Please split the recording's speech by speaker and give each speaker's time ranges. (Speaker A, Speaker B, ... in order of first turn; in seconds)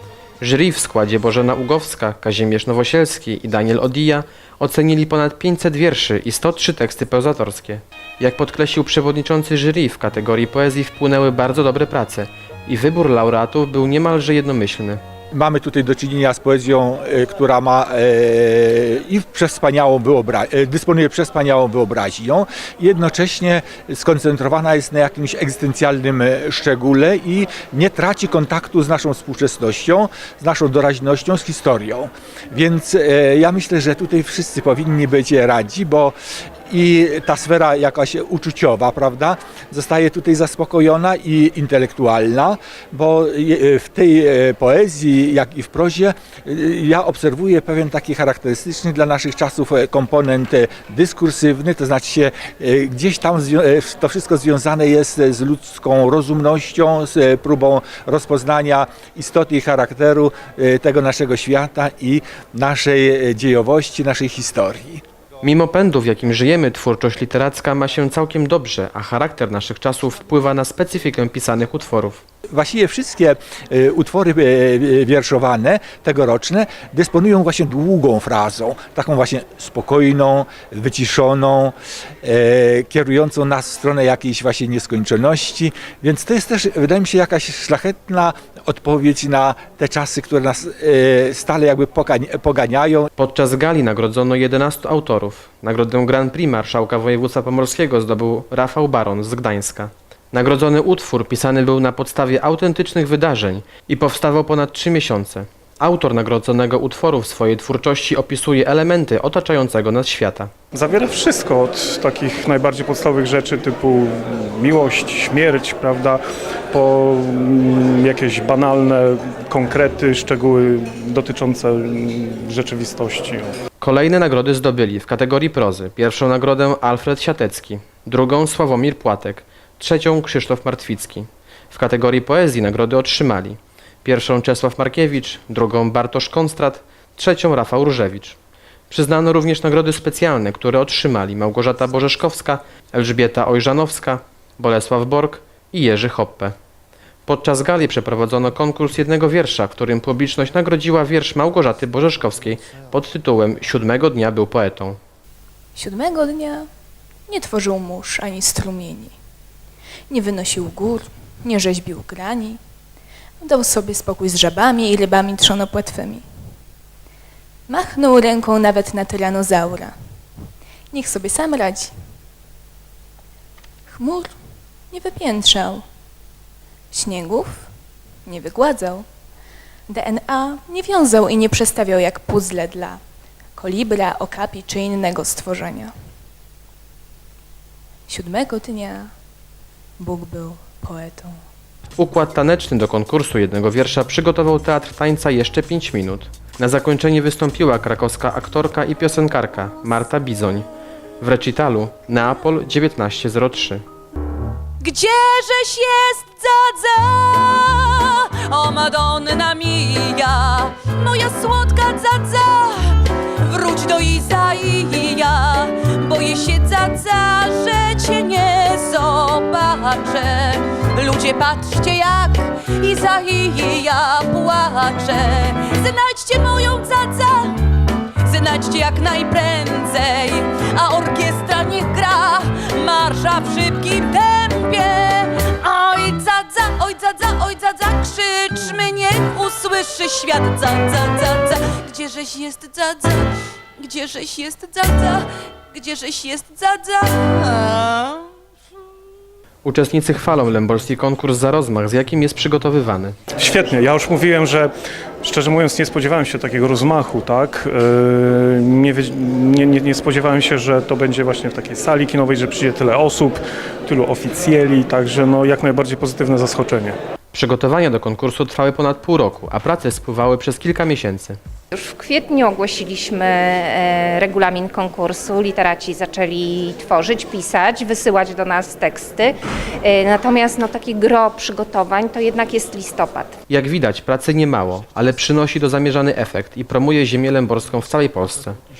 Speaker A: 0.4-15.0, 65.4-72.2, 93.2-110.5, 123.8-138.4, 138.9-146.5, 147.3-155.0, 192.0-200.7, 201.2-203.8, 249.6-253.2, 267.3-271.4, 283.5-288.6
Speaker B: 15.3-36.1, 36.7-65.0, 72.5-93.1
Speaker C: 110.7-123.5, 253.4-254.7, 255.2-267.0
Speaker D: 155.8-156.7, 157.3-159.2, 160.1-162.6, 163.4-166.2, 167.7-169.9, 170.9-171.9, 173.9-174.3, 174.9-175.8, 176.9-177.7, 178.3-179.1, 179.9-183.0, 183.6-185.9, 188.1-189.1, 190.0-191.3
Speaker E: 204.8-248.2
Speaker F: 271.7-283.4